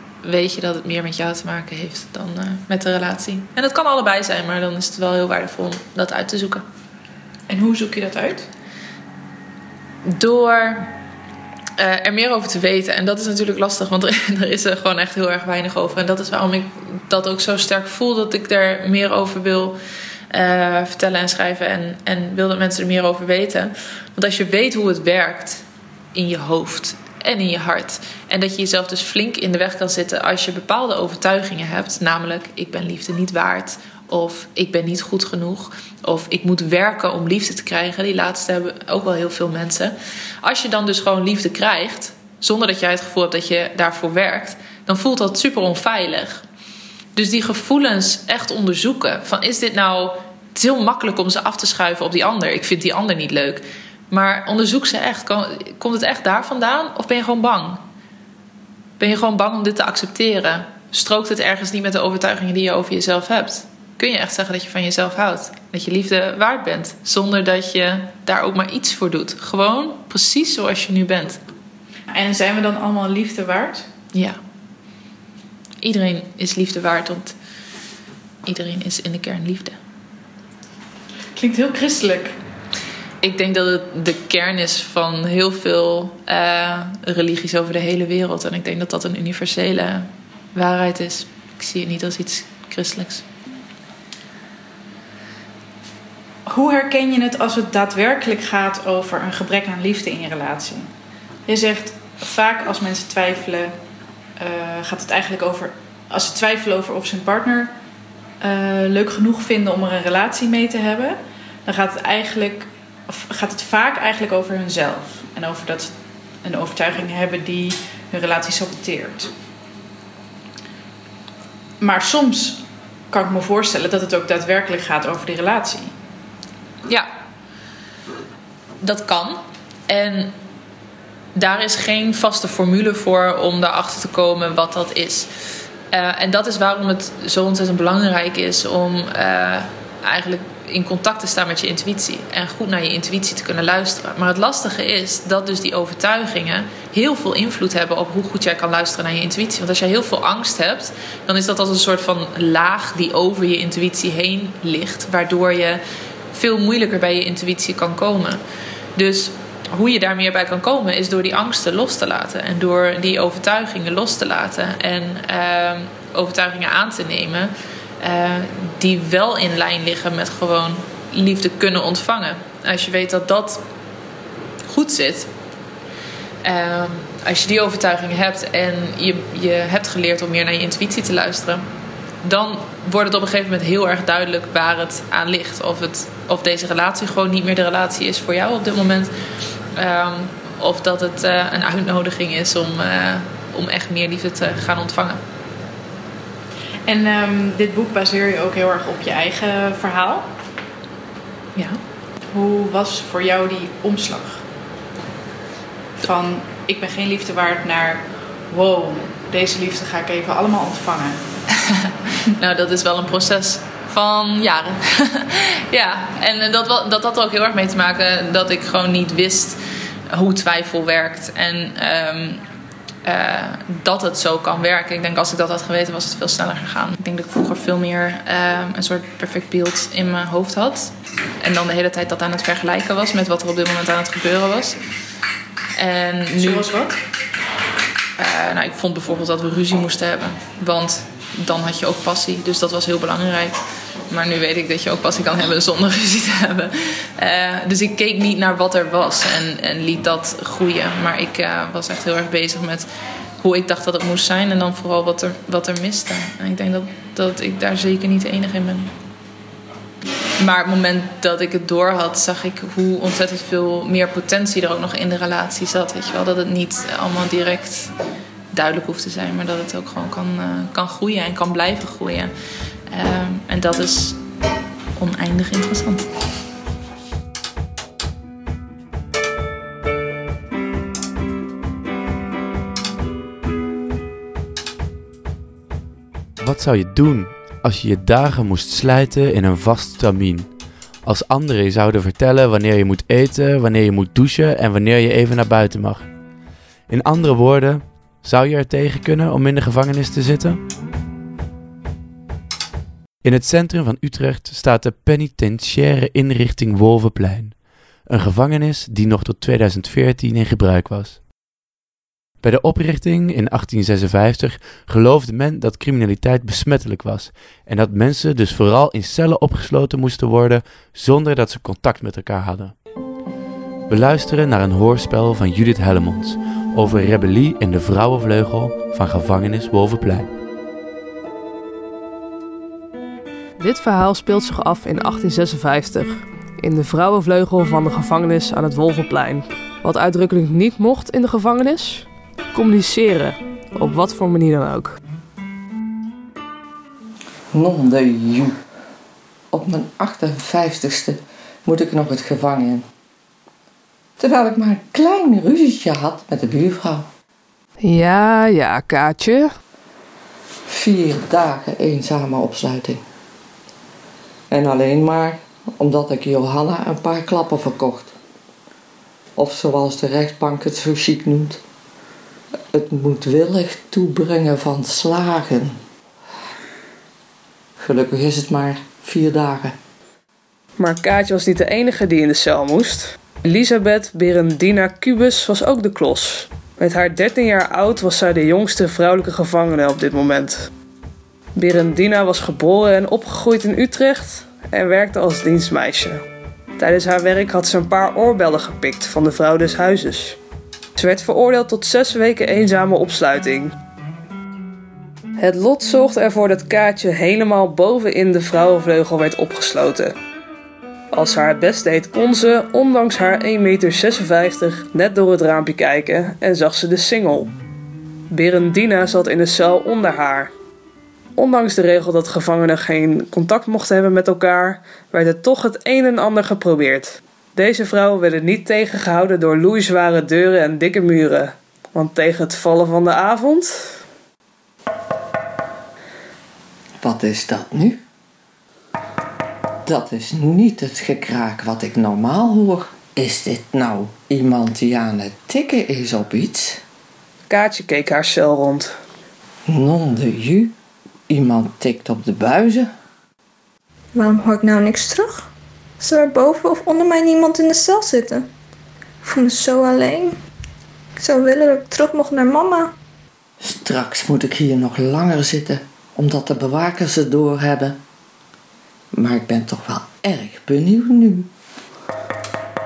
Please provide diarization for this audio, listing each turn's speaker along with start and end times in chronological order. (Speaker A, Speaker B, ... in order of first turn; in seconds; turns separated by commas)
Speaker A: 0.2-6.7, Speaker B: 7.5-8.5, Speaker A: 10.1-10.9, Speaker A: 11.8-19.8, Speaker A: 20.3-25.6, Speaker A: 26.1-46.5, Speaker A: 47.1-57.8, Speaker A: 59.0-71.4, Speaker B: 72.1-73.9, Speaker A: 74.1-74.4, Speaker A: 75.8-77.3, Speaker A: 78.5-79.8, Speaker B: 81.3-82.4, Speaker A: 83.2-93.2, Speaker B: 96.5-100.9, Speaker B: 101.5-103.8, Speaker B: 104.4-107.7, Speaker B: 108.4-119.3, Speaker B: 121.8-125.9, Speaker A: 128.8-130.3, Speaker A: 131.3-135.3, Speaker A: 135.9-155.8, Speaker A: 156.3-158.4, Speaker A: 159.0-173.6, Speaker A: 174.7-175.3, Speaker A: 176.4-181.7, Speaker A: 182.2-189.1, Speaker A: 189.8-195.2, Speaker B: 196.9-200.3, Speaker B: 202.3-204.4, Speaker B: 206.0-211.2, Speaker A: 212.4-219.6, Speaker A: 220.1-222.4, Speaker A: 223.1-234.8, Speaker A: 235.8-236.7, Speaker B: 236.3-237.0, Speaker A: 238.2-243.6, Speaker A: 244.1-252.9, Speaker A: 253.4-258.9, Speaker A: 260.4-267.9, Speaker A: 268.5-272.3, Speaker A: 272.9-274.2, Speaker A: 275.0-276.1, Speaker C: 286.4-290.5, Speaker C: 291.0-296.1, Speaker C: 296.9-300.6, Speaker C: 303.2-311.2, Speaker C: 312.4-322.7, Speaker C: 323.9-330.3, Speaker D: 333.6-345.0, Speaker E: 347.5-348.6, Speaker E: 349.5-352.9, Speaker E: 354.2-357.1, Speaker D: 357.8-359.5, Speaker E: 360.7-363.0, Speaker E: 364.5-368.1, Speaker E: 369.4-371.6, Speaker E: 372.7-375.8, Speaker E: 377.8-379.8, Speaker D: 380.8-390.7, Speaker D: 391.6-396.2, Speaker D: 396.8-400.4, Speaker D: 401.0-403.7, Speaker D: 405.4-410.1, Speaker D: 411.1-417.5, Speaker D: 418.3-420.5, Speaker D: 421.4-434.0, Speaker E: 437.0-438.0, Speaker E: 439.9-446.8, Speaker D: 447.5-448.9, Speaker E: 449.7-450.7, Speaker E: 451.3-452.9, Speaker F: 454.1-455.5, Speaker F: 456.0-458.5, Speaker F: 459.2-460.4, Speaker F: 461.2-462.9, Speaker E: 463.6-468.0, Speaker E: 469.1-471.5